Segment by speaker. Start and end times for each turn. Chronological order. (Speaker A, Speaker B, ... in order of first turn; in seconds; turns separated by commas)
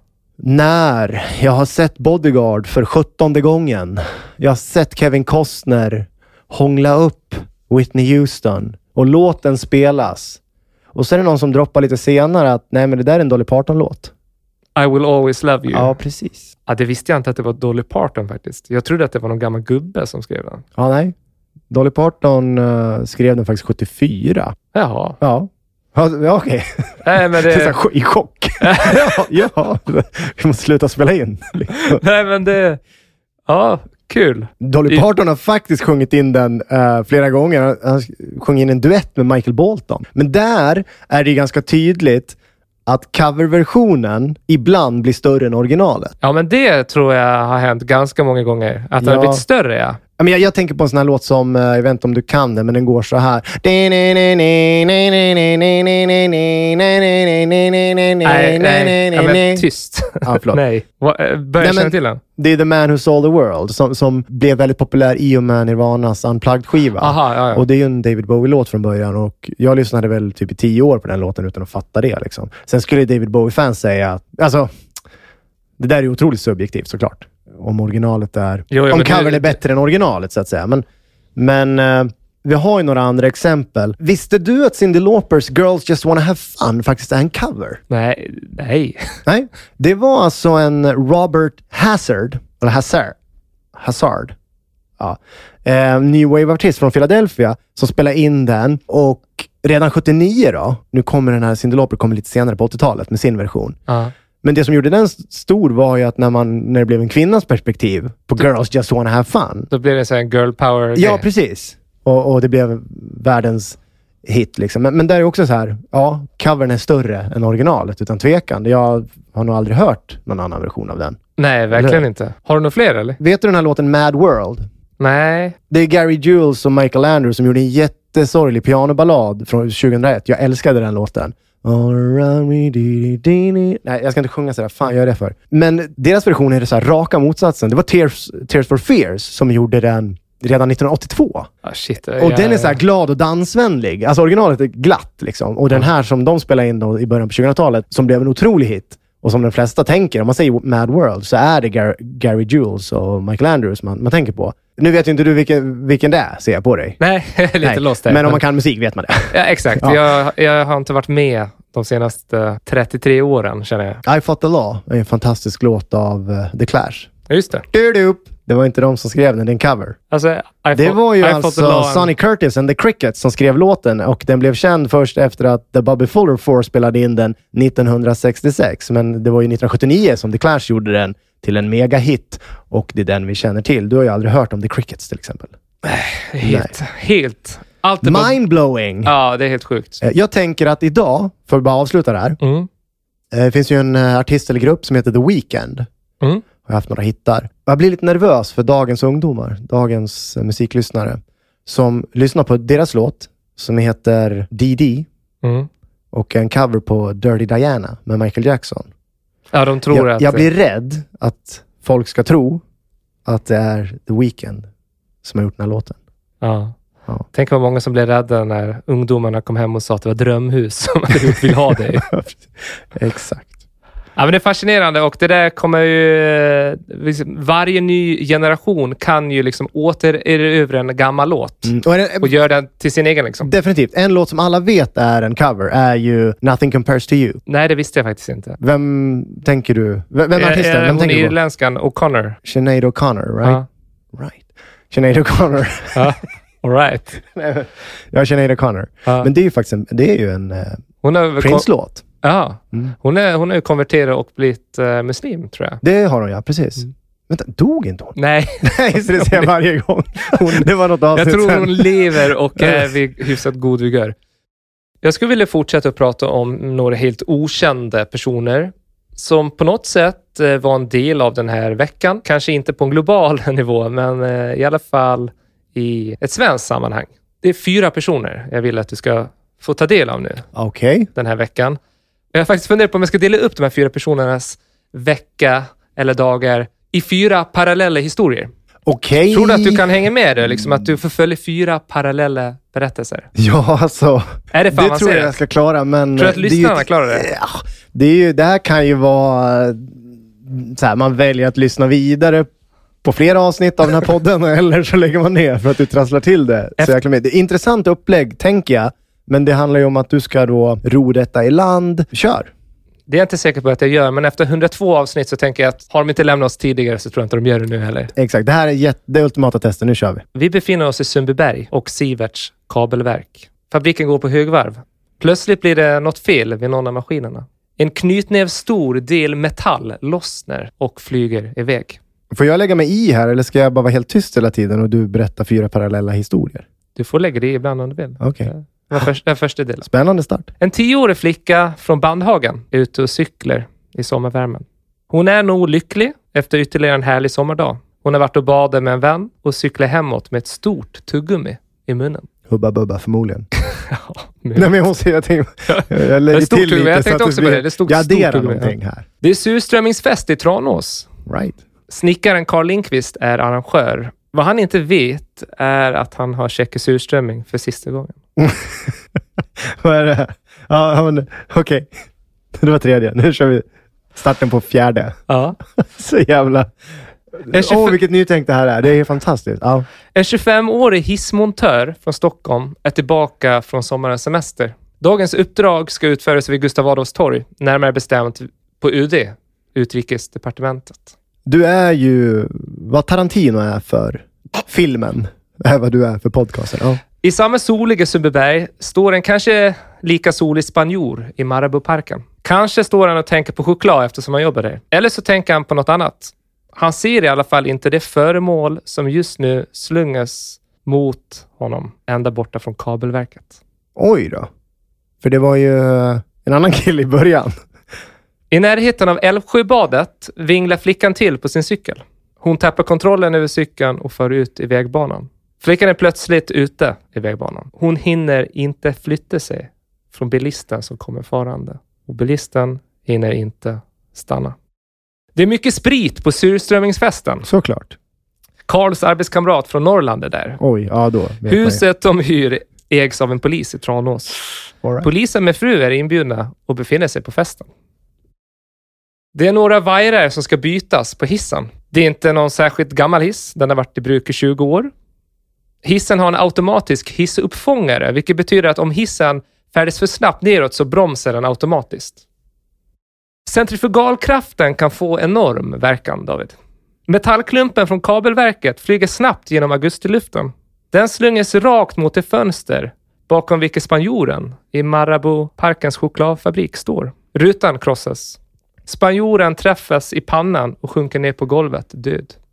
Speaker A: 0.4-10.4, Speaker A: 10.9-14.1, Speaker B: 14.8-15.9, Speaker A: 15.7-16.5, Speaker B: 16.7-20.6, Speaker A: 20.8-21.1, Speaker A: 21.7-24.6, Speaker B: 24.7-25.2, Speaker A: 25.2-32.0, Speaker B: 27.0-27.7, Speaker B: 28.6-29.2, Speaker B: 31.8-32.8, Speaker B: 33.5-35.1, Speaker A: 34.6-46.1, Speaker B: 46.2-50.0, Speaker A: 49.0-49.4, Speaker A: 50.2-59.6, Speaker B: 58.2-62.2, Speaker A: 60.2-60.6, Speaker A: 61.6-74.7, Speaker B: 67.0-67.6, Speaker A: 75.8-80.8, Speaker B: 78.7-79.6, Speaker A: 81.4-87.8, Speaker B: 87.9-89.2, Speaker A: 89.2-93.2, Speaker A: 93.7-94.3, Speaker A: 95.0-103.8, Speaker A: 104.4-109.7, Speaker B: 109.7-111.2, Speaker A: 110.9-121.2, Speaker B: 121.4-123.2, Speaker A: 121.7-122.0, Speaker A: 123.2-124.7, Speaker B: 125.0-125.6, Speaker A: 125.7-141.5, Speaker B: 141.6-142.8, Speaker A: 142.2-157.0, Speaker B: 157.0-158.4, Speaker A: 157.6-160.0, Speaker B: 159.3-164.0, Speaker A: 164.0-167.1, Speaker B: 167.3-167.6, Speaker A: 167.7-170.0, Speaker B: 170.1-172.1, Speaker A: 170.7-185.5, Speaker B: 185.8-188.4, Speaker A: 186.4-186.7, Speaker A: 188.0-189.1, Speaker B: 189.1-190.0, Speaker A: 190.0-192.4, Speaker B: 192.4-192.7, Speaker A: 193.3-195.9, Speaker A: 196.6-205.1, Speaker B: 205.4-205.7, Speaker A: 206.1-208.9, Speaker B: 209.5-210.5, Speaker A: 209.9-212.6, Speaker A: 213.2-214.7, Speaker A: 215.2-216.0, Speaker B: 216.4-216.7, Speaker B: 217.3-222.1, Speaker A: 221.7-223.5, Speaker B: 224.2-233.5, Speaker A: 231.6-232.3, Speaker A: 233.4-237.4, Speaker B: 237.5-238.6, Speaker A: 238.6-241.3, Speaker B: 240.3-242.4, Speaker A: 242.4-243.6, Speaker A: 244.1-246.1, Speaker B: 245.9-247.2, Speaker A: 247.2-250.8, Speaker B: 251.0-251.7, Speaker A: 251.4-252.0, Speaker B: 252.2-255.8, Speaker A: 255.8-262.9, Speaker B: 258.1-259.5, Speaker B: 260.3-264.1, Speaker B: 265.0-280.4, Speaker A: 280.5-281.1, Speaker B: 281.1-281.8, Speaker B: 282.3-288.5, Speaker A: 288.9-290.9, Speaker B: 289.3-293.3, Speaker A: 293.4-302.5, Speaker B: 294.5-295.4, Speaker B: 296.1-297.3, Speaker A: 303.0-312.5, Speaker B: 313.1-318.1, Speaker A: 318.1-320.2, Speaker B: 320.4-332.0, Speaker A: 332.3-336.6, Speaker B: 336.9-339.9, Speaker A: 338.2-339.1, Speaker A: 339.8-340.5, Speaker B: 340.6-352.3, Speaker A: 352.5-353.5, Speaker B: 353.7-354.9, Speaker A: 354.6-359.1, Speaker B: 355.7-361.1, Speaker A: 361.3-361.6, Speaker B: 361.9-368.1, Speaker A: 368.4-368.9, Speaker A: 369.6-371.9, Speaker A: 372.5-375.2, Speaker B: 375.3-375.6, Speaker A: 375.8-376.7, Speaker A: 377.4-379.9, Speaker B: 377.5-378.0, Speaker B: 380.1-391.1, Speaker A: 391.4-397.0, Speaker B: 397.2-413.6, Speaker A: 414.0-414.5, Speaker A: 415.2-417.5, Speaker B: 418.5-434.6, Speaker B: 435.4-437.5, Speaker A: 437.4-438.0, Speaker B: 438.7-440.6, Speaker A: 440.6-441.8, Speaker B: 441.5-447.7, Speaker A: 444.8-445.1, Speaker B: 449.4-454.9, Speaker B: 455.8-462.2, Speaker B: 463.5-466.5, Speaker B: 467.1-482.3